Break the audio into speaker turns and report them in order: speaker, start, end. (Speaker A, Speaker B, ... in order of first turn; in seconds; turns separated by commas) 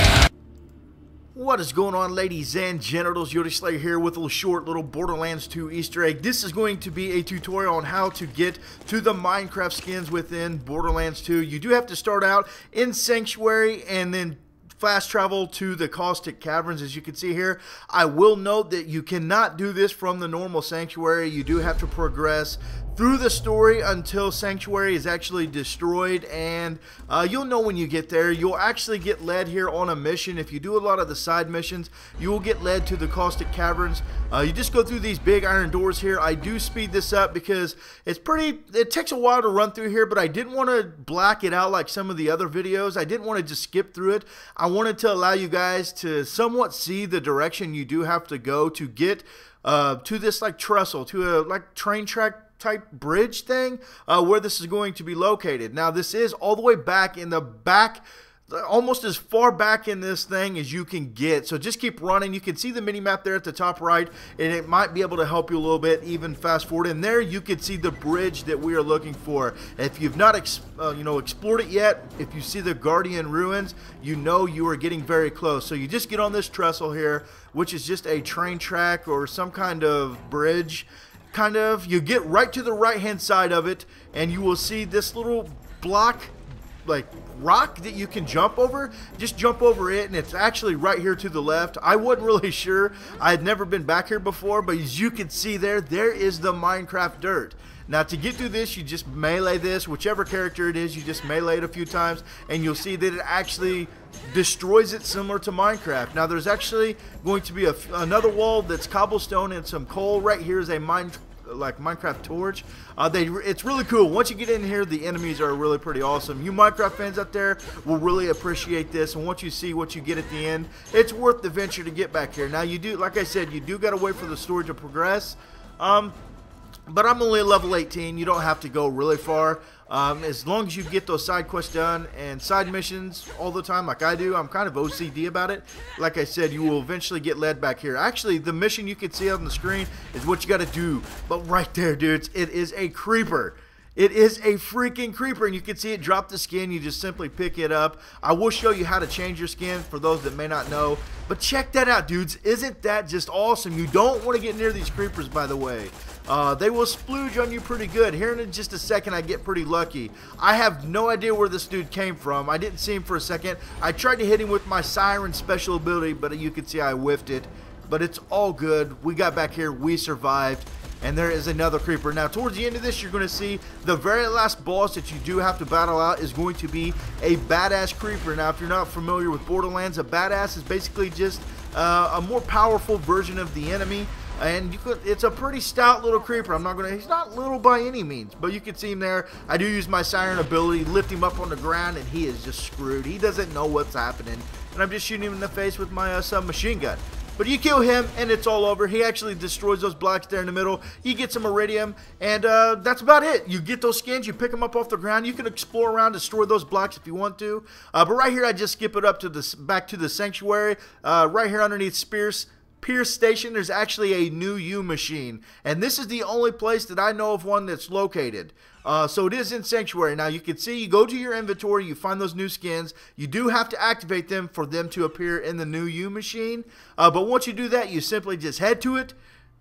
Speaker A: 1.3-126.2, Speaker A: 126.9-229.2